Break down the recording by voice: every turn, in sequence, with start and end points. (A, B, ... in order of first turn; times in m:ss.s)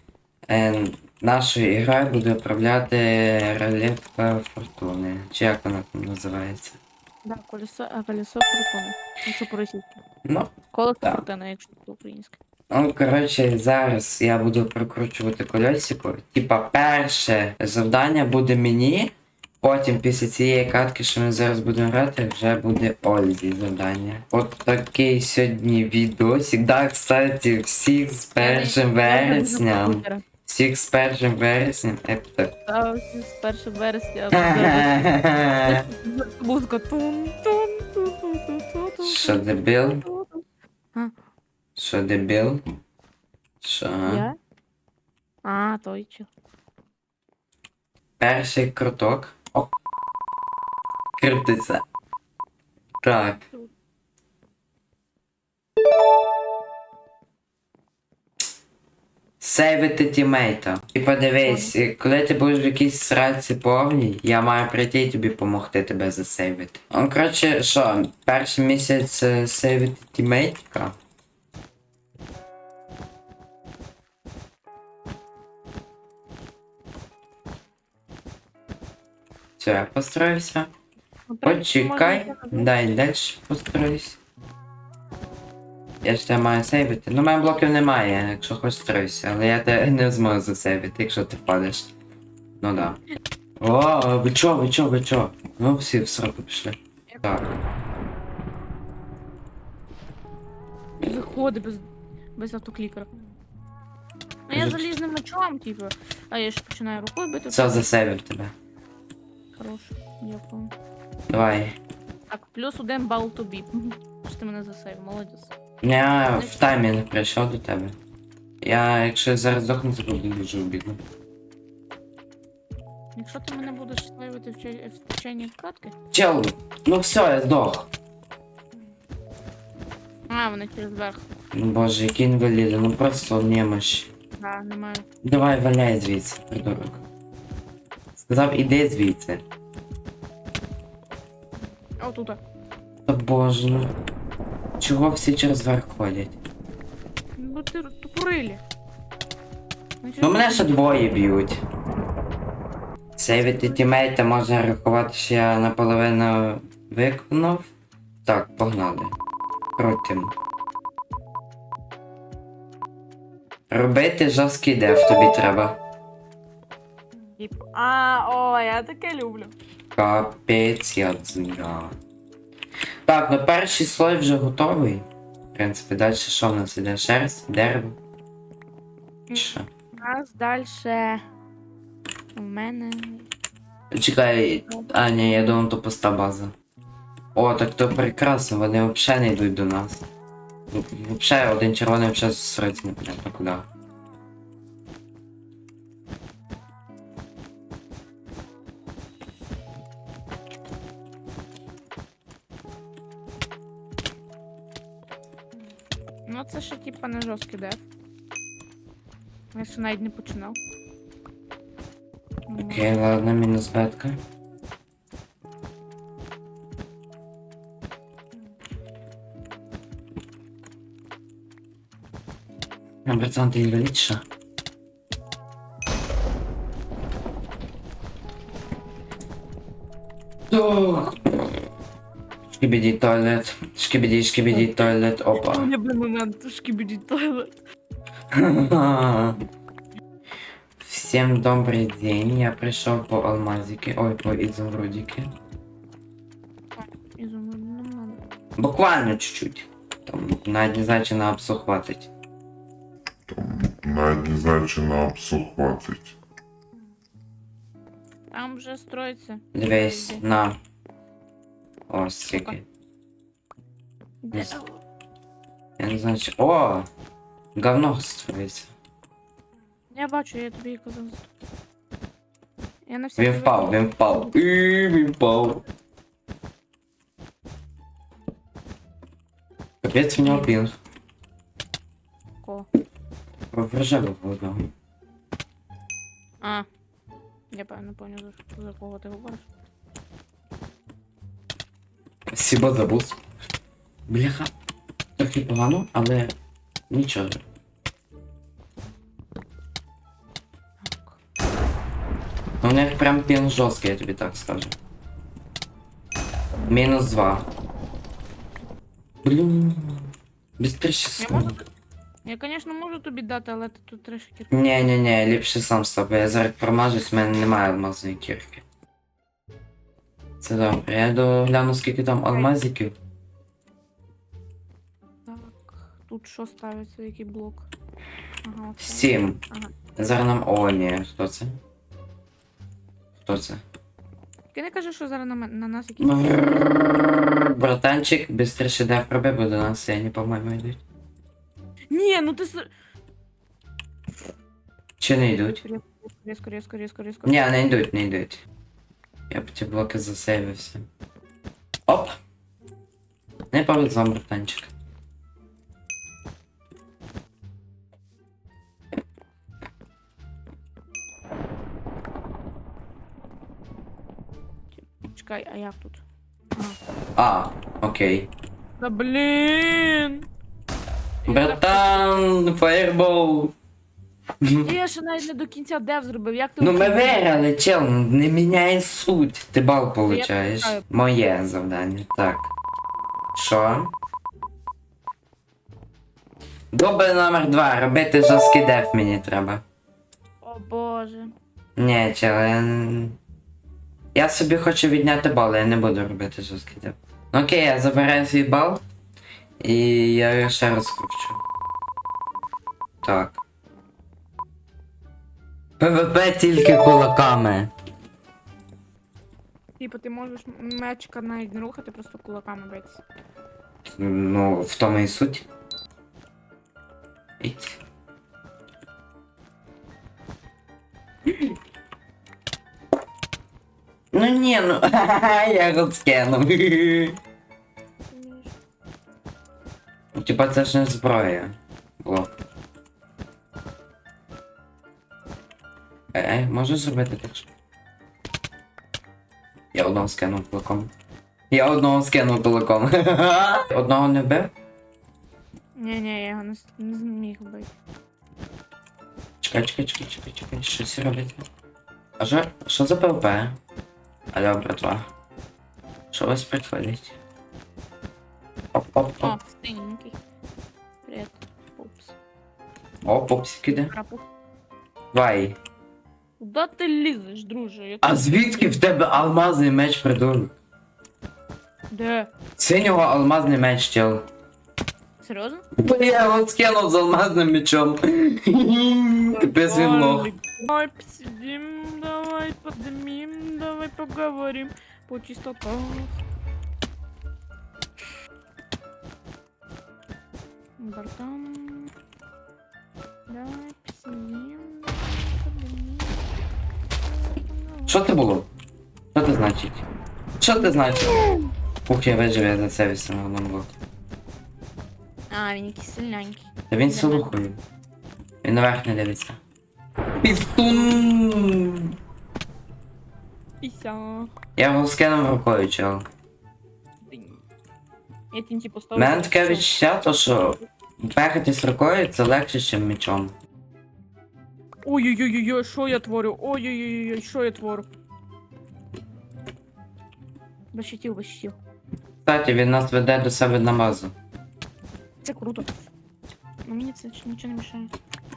0:00.5-0:06.8 A
0:07.2-0:10.0 B
0:10.2-0:11.2 A
0:10.7-0:12.4 B
0:12.7-0:32.5 A
0:28.4-0:30.2 B
0:32.7-0:35.0 B
0:34.3-0:35.8 A
0:35.6-0:39.4 B
0:39.0-0:40.1 A
0:40.0-0:41.1 B
0:41.8-0:42.6 A
0:43.6-0:44.3 A
0:44.0-0:44.4 B
0:45.4-0:46.3 B
0:48.2-0:49.7 A
0:51.2-0:51.8 A
0:53.0-0:53.4 A
0:59.4-1:11.0 A
1:01.4-1:01.7 B
1:19.6-1:20.7 A
1:21.3-1:22.7 B
1:21.4-1:24.2 A
1:26.0-1:31.9 A
1:32.6-1:33.0 A
1:33.6-1:37.5 A
1:41.0-1:43.1 B
1:44.5-1:47.9 B
1:44.5-1:45.0 A
1:47.5-1:48.5 A
1:49.6-1:50.7 B
1:51.3-1:51.8 A
1:52.3-1:55.5 B
1:55.8-1:58.0 A
1:58.6-2:01.0 A
2:03.2-2:05.9 B
2:06.1-2:07.9 A
2:10.3-2:11.3 B
2:11.5-2:14.1 A
2:14.4-2:15.0 B
2:15.2-2:17.0 A
2:18.2-2:19.4 A
2:22.0-2:22.4 B
2:23.1-2:23.9 A
2:24.8-2:26.4 A
2:27.4-2:28.6 B
2:30.0-2:30.7 B
2:30.2-2:31.6 A
2:33.2-2:37.7 A
2:33.5-2:33.8 B
2:38.2-2:39.2 A
2:39.8-2:40.3 A
2:43.7-2:45.8 A
2:47.4-2:49.5 B
2:50.0-2:52.0 A
2:53.1-2:58.0 A
2:59.3-3:01.2 B
2:59.3-2:59.7 A
3:02.4-3:03.3 B
3:03.9-3:06.5 A
3:07.4-3:10.1 A
3:10.7-3:13.7 A
3:26.3-3:27.9 B
3:29.5-3:30.6 B
3:32.5-3:32.9 B
3:32.7-3:34.2 A
3:43.0-3:44.2 A
3:50.5-3:51.6 A
3:52.5-3:55.7 A
3:54.5-3:54.9 B
3:55.4-3:57.6 B
3:58.3-3:59.4 A
4:00.8-4:05.3 A
4:06.8-4:08.2 B
4:08.6-4:12.1 A
4:13.3-4:16.1 C
4:18.3-4:20.2 B
4:19.5-4:20.6 A
4:21.9-4:22.6 A
4:24.2-4:24.8 B
4:24.3-4:24.6 A
4:25.8-4:26.9 A
4:27.6-4:28.7 A
4:29.9-4:31.3 B
4:32.9-4:34.4 B
4:33.2-4:35.6 A
4:39.8-4:40.8 A
4:40.2-4:40.6 B
4:42.4-4:42.7 B
4:43.5-4:44.7 A
4:46.4-4:46.7 B
4:47.5-4:49.5 B
4:52.3-4:53.2 A
4:54.1-4:54.5 A
4:55.2-4:56.4 A
4:56.9-4:57.4 A
5:00.8-5:01.2 B
5:02.6-5:04.8 A
5:06.7-5:07.4 A
5:09.2-5:11.6 A
5:11.2-5:11.6 B
5:12.2-5:14.7 B
5:14.5-5:18.6 A
5:20.4-5:22.9 A
5:25.3-5:27.7 B
5:28.4-5:29.7 B
5:28.8-5:29.4 A
5:30.0-5:31.5 A
5:33.2-5:33.6 A
5:34.5-5:36.7 B
5:36.0-5:40.8 A
5:41.9-5:42.7 B
5:45.0-5:45.6 A
5:45.6-5:47.4 B
5:47.2-5:48.4 A
5:49.3-5:50.8 A
5:51.9-5:52.2 A
5:53.5-5:54.7 A
6:04.8-6:06.0 B
6:07.2-6:08.3 A
6:08.8-6:10.2 B
6:11.2-6:12.0 B
6:11.3-6:13.5 A
6:14.4-6:14.7 A
6:14.6-6:17.3 B
6:16.6-6:22.5 A
6:20.1-6:20.8 B
6:23.3-6:23.9 A
6:26.7-6:29.6 A
6:30.4-6:31.3 B
6:31.8-6:33.2 A
6:34.2-6:38.8 A
6:39.6-6:41.4 A
6:43.0-6:43.4 A
6:45.8-6:47.7 A
6:49.8-6:53.0 B
6:53.8-6:55.4 A
6:57.4-6:57.8 A
7:04.1-7:07.2 A
7:08.1-7:08.5 B
7:10.2-7:12.3 A
7:16.1-7:17.5 A
7:19.7-7:20.9 A
7:21.5-7:24.5 A
7:25.8-7:27.7 B
7:29.4-7:31.4 A
7:32.2-7:33.6 A
7:34.3-7:35.1 A
7:36.1-7:37.2 A
7:38.7-7:39.4 A
7:39.2-7:40.2 B
7:41.0-7:42.2 B
7:43.0-7:43.9 A
7:43.7-7:44.2 B
7:45.1-7:45.6 A
7:46.4-7:48.6 B
7:48.0-7:50.5 A
7:51.9-7:52.3 B
7:52.6-7:54.3 A
7:55.2-7:55.6 B
7:55.8-8:00.3 A
7:59.3-8:06.2 B
8:10.8-8:11.9 B
8:13.3-8:16.3 B
8:17.2-8:18.0 B
8:17.9-8:18.5 A
8:19.1-8:19.8 A
8:20.4-8:21.3 A
8:21.1-8:21.5 B
8:21.9-8:23.7 A
8:25.3-8:27.4 B
8:26.7-8:27.6 A
8:28.4-8:29.4 A
8:30.2-8:31.9 A
8:33.6-8:34.3 B
8:34.6-8:36.1 A
8:37.1-8:37.4 B
8:38.3-8:39.7 B
8:39.0-8:43.3 A
8:44.8-8:47.9 B
8:50.7-8:51.6 B
8:52.3-8:54.1 A
8:55.2-8:55.7 B
8:56.7-8:57.9 B